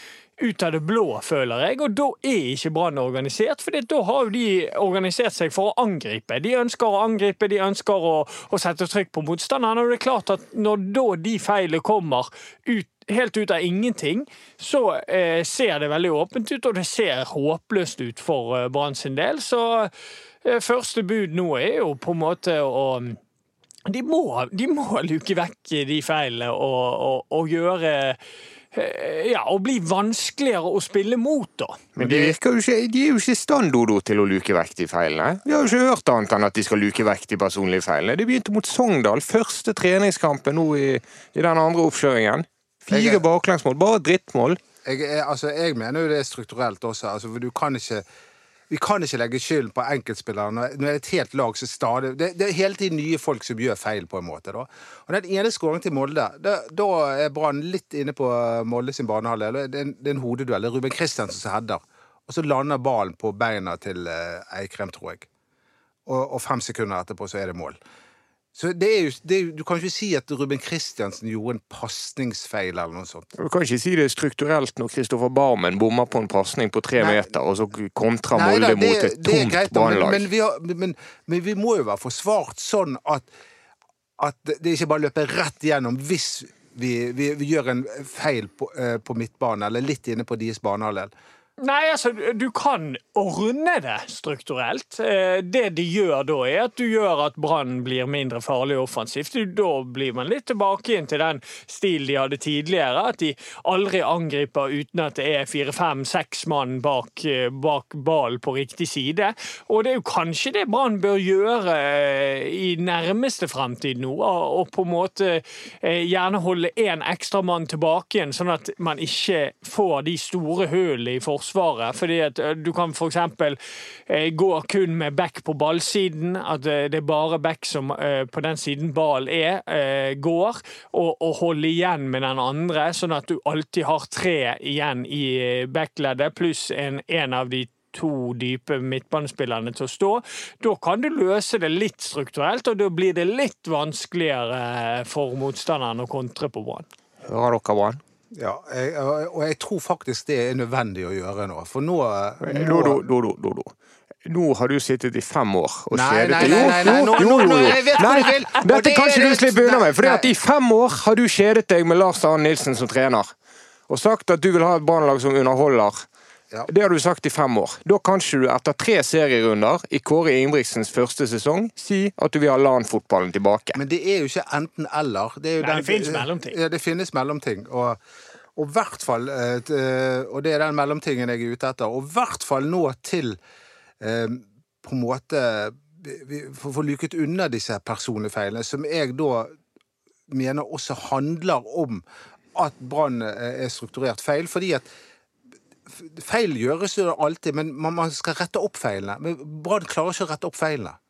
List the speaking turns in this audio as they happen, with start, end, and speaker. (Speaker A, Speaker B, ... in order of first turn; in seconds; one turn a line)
Speaker A: 0.4-19.9
Speaker A: 20.4-23.2
Speaker A: 23.9-28.2
Speaker A: 28.7-32.4
Speaker B: 32.0-44.6
Speaker C: 42.9-43.2
Speaker C: 44.9-48.0
Speaker C: 48.7-65.3
Speaker C: 66.1-67.8
Speaker C: 68.5-73.3
Speaker B: 73.4-80.3
Speaker C: 77.0-77.3
Speaker C: 78.3-83.3
Speaker C: 84.2-91.1
Speaker A: 91.6-146.9
Speaker B: 147.2-148.0
Speaker C: 148.3-153.1
Speaker B: 152.4-153.7
Speaker B: 154.3-163.3
Speaker C: 155.9-160.3
Speaker A: 156.4-158.7
Speaker B: 163.9-166.1
Speaker B: 166.7-173.8
Speaker C: 173.7-178.0
Speaker A: 175.6-176.6
Speaker C: 178.6-183.4
Speaker C: 184.0-189.6
Speaker C: 190.3-192.0
Speaker C: 192.6-194.9
Speaker C: 195.9-201.0